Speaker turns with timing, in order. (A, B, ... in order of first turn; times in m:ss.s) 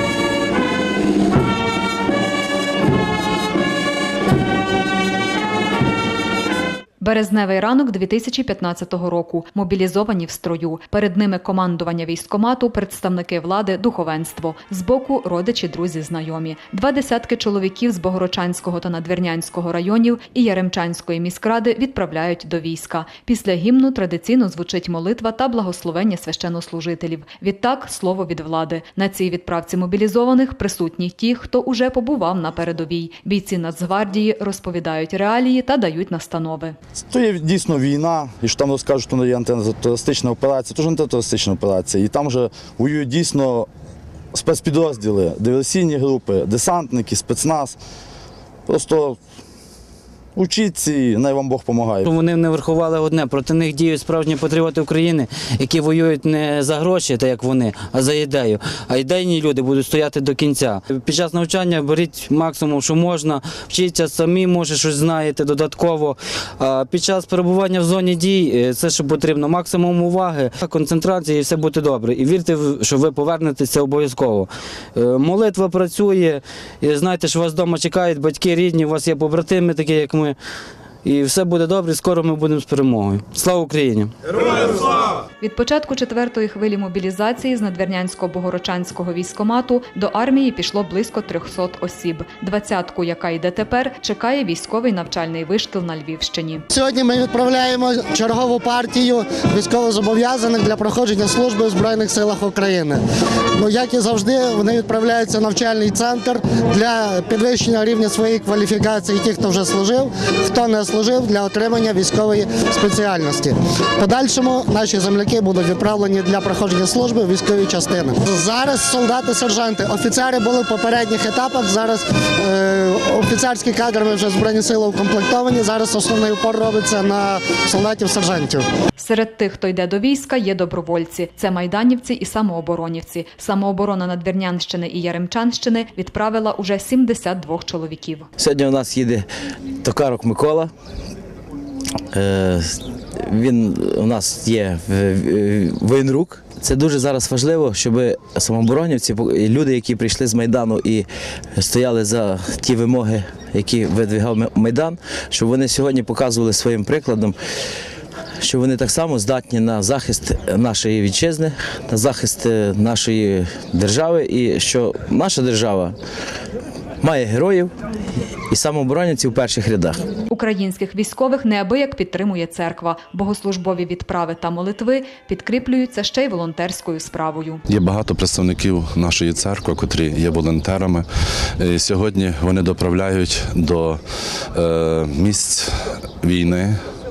0:07.0-0:36.8 A
0:37.1-0:43.7 B
0:44.3-0:47.8 B
0:48.7-0:49.2 B
0:50.4-0:52.1 B
0:52.0-1:20.4 C
1:21.0-1:24.1 C
1:25.4-1:36.6 A
1:36.7-1:43.0 D
1:43.6-2:08.6 D
2:09.0-2:18.3 A
2:18.4-2:19.3 E
2:19.8-2:20.7 E
2:22.1-2:37.4 E
2:38.4-2:46.0 E
2:47.0-2:47.7 E
2:48.5-2:50.0 E
2:50.3-2:57.6 A
2:57.7-3:01.0 F
3:01.6-3:04.0 F
3:04.5-3:05.7 F
3:06.2-3:06.8 F